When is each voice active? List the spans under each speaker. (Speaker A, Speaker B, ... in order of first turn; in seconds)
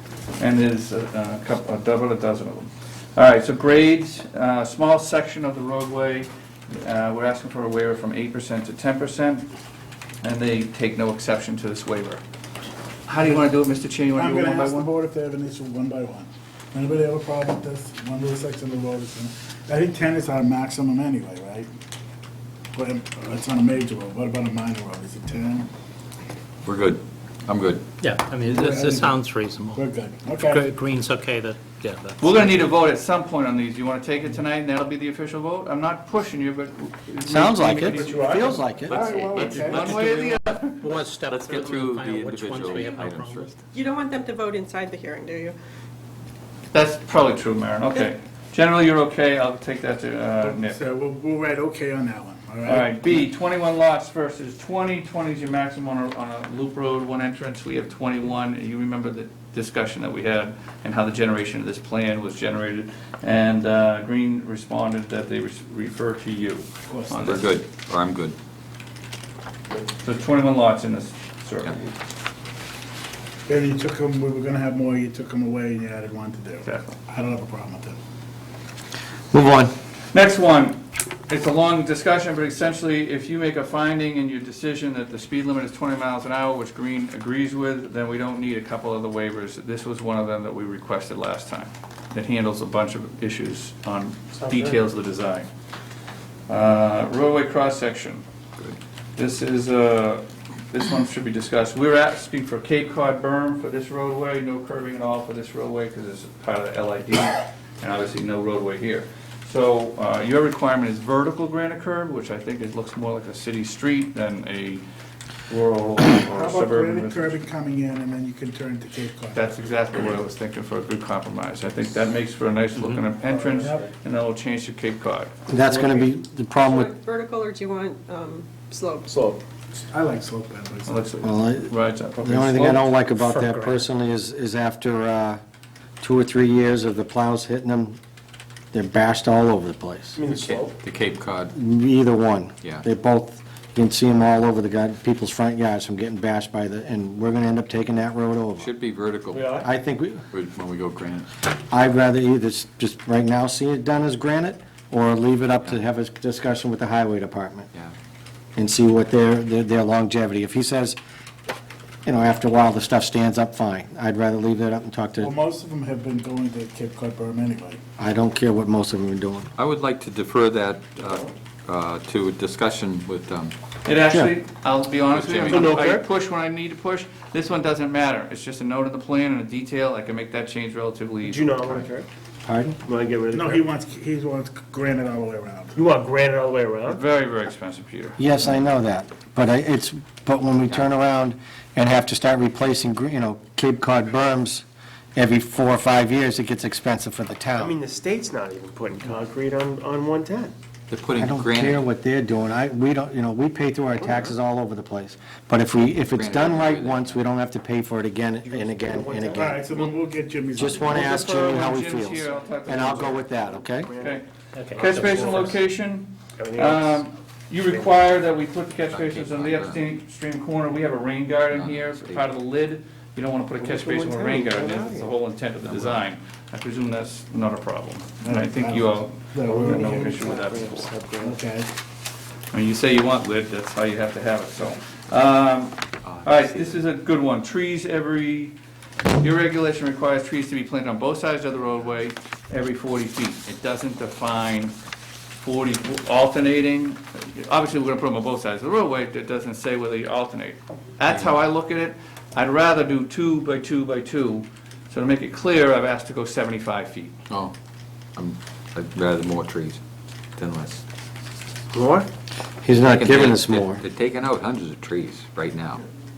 Speaker A: 0.4-9.5, 10.2-12.2, 13.1-14.9, 32.2-38.6, 39.3-40.9, 46.7-50.9, 52.6-67.5, 70.0-71.8, 76.6-77.0, 80.1-95.5, 96.5-98.2, 99.2-114.8, 115.5-117.4, 119.3-125.3, 130.9-132.8, 173.8-181.9, 186.9-188.2, 210.9-213.2, 214.0-214.2, 214.8-230.9, 232.5-238.6, 239.2-244.7, 245.4-257.1
Speaker B: 14.2-21.7, 22.7-25.7, 28.5-29.2, 29.7-30.7, 37.9-40.0, 50.4-52.9, 66.9-67.4, 73.5-78.0, 116.2-120.2, 123.3-123.8, 129.7-131.1, 165.2-167.8, 183.3-185.8, 209.3-211.3, 228.2-230.2, 231.2-231.7
Speaker C: 26.6-27.8, 38.9-40.3, 41.3-43.6, 67.2-68.4, 140.3-141.6, 148.6-149.7, 150.3-151.3, 169.6-173.5, 175.1-175.8, 200.9-201.9, 206.1-207.3, 218.9-219.8, 221.5-222.3, 225.6-226.1, 236.0-236.8, 257.3-257.5, 258.1-259.8, 260.4-260.8, 262.8-265.8
Speaker D: 28.0-28.3, 30.5-32.5, 39.7-40.2, 43.7-45.5, 126.7-129.2, 214.7-215.3
Speaker E: 28.0-29.8, 30.5-32.5, 40.8-43.5, 133.3-133.8, 214.6-215.6
Speaker F: 37.3-39.0, 79.3-79.7, 125.5-126.9, 131.2-135.4, 136.0-138.0, 138.7-140.2, 141.5-148.7, 149.6-150.2, 151.6-157.7, 158.6-161.0, 162.0-165.3, 168.0-169.5, 182.4-182.8, 188.2-197.8, 201.2-209.7, 210.6-213.9, 262.6-263.8
Speaker G: 125.8-126.0, 129.1-129.4, 140.2-140.8, 149.3-149.7, 175.5-176.1, 181.2-182.1, 182.8-183.7, 185.8-187.0, 197.6-200.5, 204.0-204.3, 208.4-209.8, 212.7-214.2, 214.8-215.4, 216.4-217.0, 223.6-225.1, 229.4-231.4, 261.7-262.1